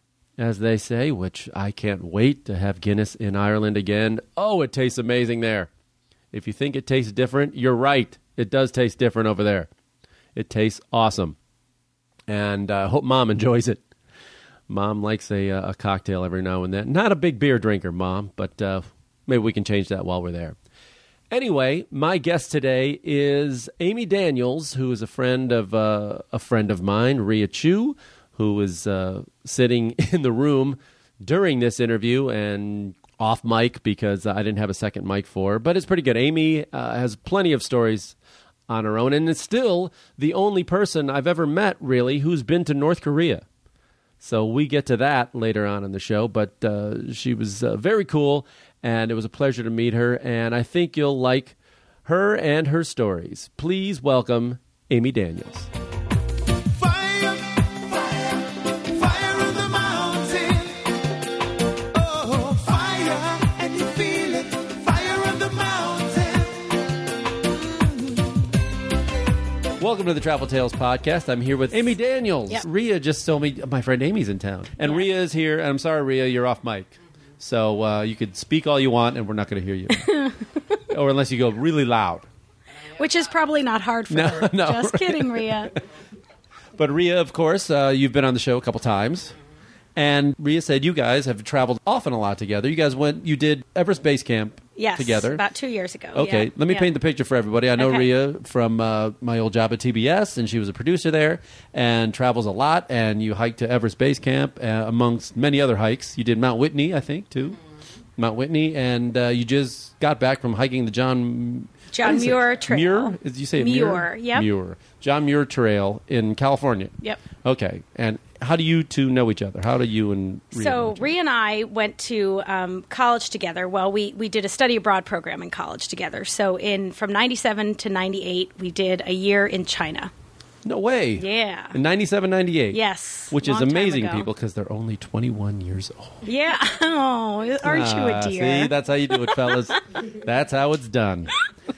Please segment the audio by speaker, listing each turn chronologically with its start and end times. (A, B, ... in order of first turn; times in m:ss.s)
0:00.4-0:05.7 A
0:06.3-0:09.7 A
0:10.3-0:11.4 A
0:12.3-0:13.8 A
0:14.7-0:20.6 A
0:21.3-0:38.2 A
0:38.7-0:43.4 A
0:44.2-0:55.7 A
0:56.7-1:00.9 B
1:01.9-1:06.8 B
1:09.8-1:20.2 A
1:19.9-1:20.5 C
1:20.9-1:22.3 A
1:22.9-1:23.2 B
1:22.9-1:25.7 C
1:24.1-1:25.8 A
1:26.8-1:29.3 A
1:30.0-1:35.4 A
1:34.8-1:36.9 C
1:36.1-1:47.6 A
1:37.8-1:38.1 C
1:48.2-2:01.1 A
1:51.9-1:54.5 C
2:00.5-2:10.1 C
2:10.6-2:16.3 A
2:11.2-2:11.8 C
2:12.7-2:14.3 C
2:16.2-2:19.6 C
2:17.6-2:21.4 A